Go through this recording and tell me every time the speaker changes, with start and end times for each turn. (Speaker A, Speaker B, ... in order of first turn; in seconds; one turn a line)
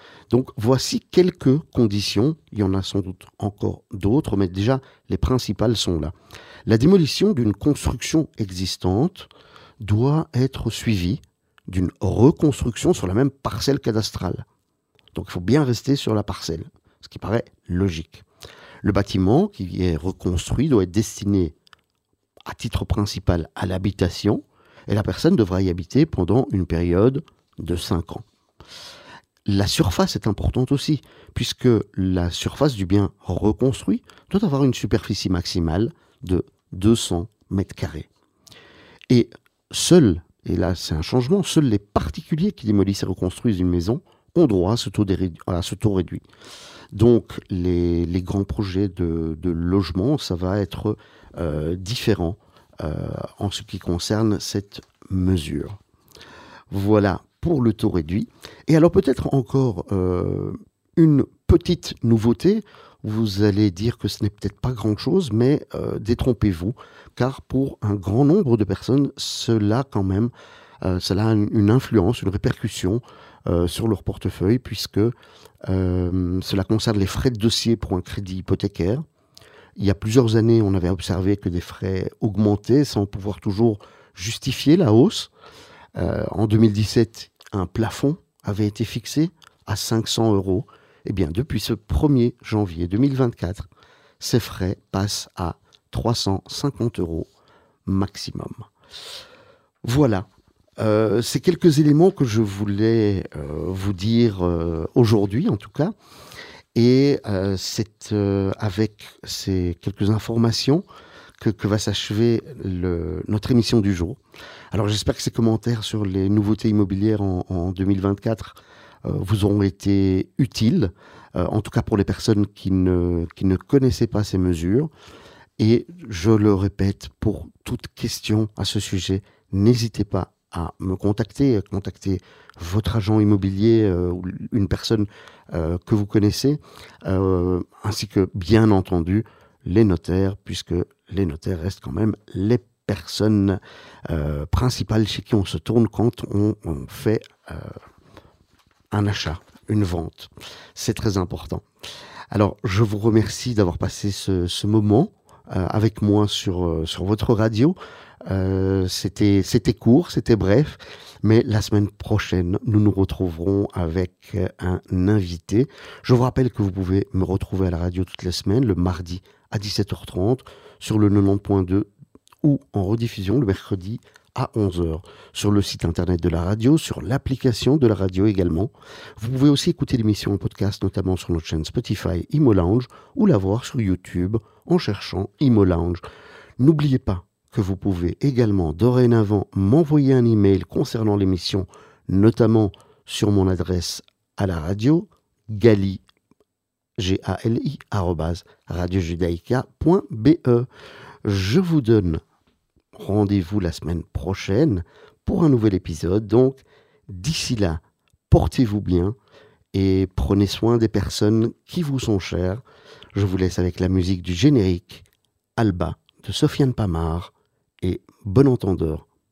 Speaker A: 0.3-6.1
Speaker A: 6.7-9.3
Speaker A: 9.8-14.4
Speaker A: 15.1-18.2
Speaker A: 18.8-21.6
Speaker A: 22.5-28.2
Speaker A: 29.5-38.1
Speaker A: 39.1-46.2
Speaker A: 46.9-55.8
Speaker A: 56.7-75.1
Speaker A: 75.7-79.0
Speaker A: 79.8-85.3
Speaker A: 86.0-93.7
Speaker A: 94.2-97.3
Speaker A: 97.9-98.7
Speaker A: 99.8-100.3
Speaker A: 100.8-106.0
Speaker A: 106.8-110.8
Speaker A: 111.4-114.2
Speaker A: 114.7-124.9
Speaker A: 125.6-147.8
Speaker A: 148.9-151.7
Speaker A: 152.3-171.9
Speaker A: 172.4-186.0
Speaker A: 186.6-196.0
Speaker A: 197.0-200.7
Speaker A: 201.2-202.2
Speaker A: 202.9-209.2
Speaker A: 209.7-212.6
Speaker A: 213.1-215.1
Speaker A: 215.6-219.1